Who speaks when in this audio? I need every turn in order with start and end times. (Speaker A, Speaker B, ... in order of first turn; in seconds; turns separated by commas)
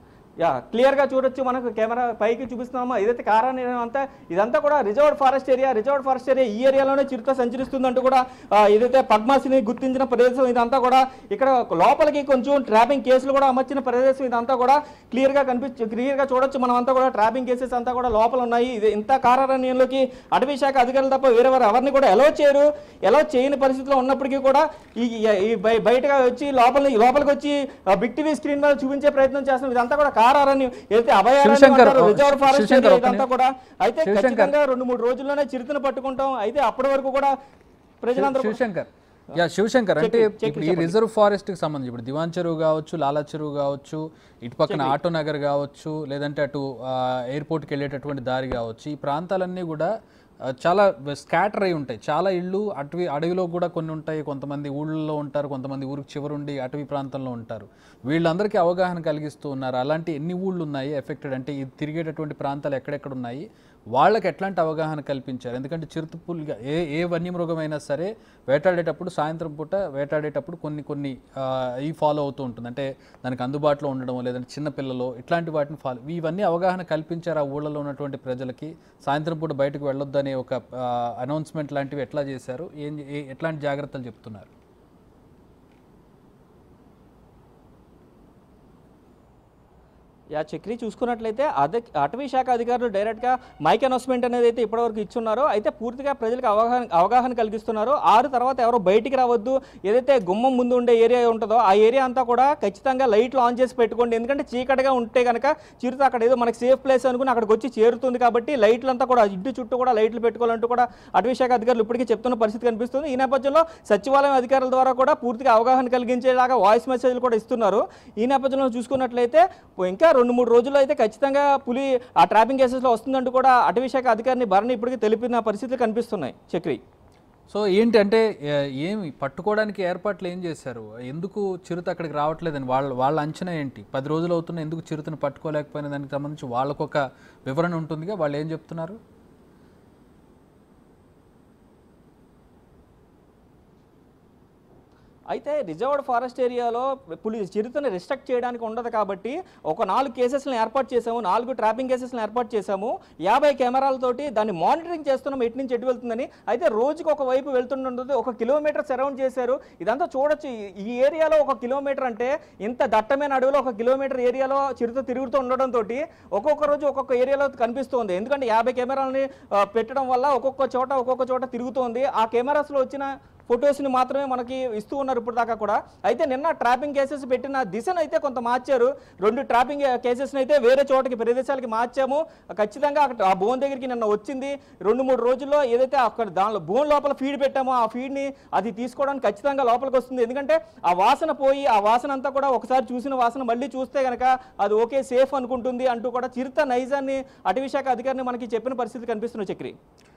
Speaker A: 0.4-37.3, Speaker B: 31.4-33.2, Speaker B: 34.0-34.5, Speaker A: 38.0-38.6, Speaker B: 38.1-49.9, Speaker A: 40.0-40.9, Speaker A: 44.7-45.0, Speaker B: 50.5-84.5, Speaker A: 90.3-126.8, Speaker B: 127.5-128.2, Speaker B: 128.8-139.0, Speaker A: 145.3-199.8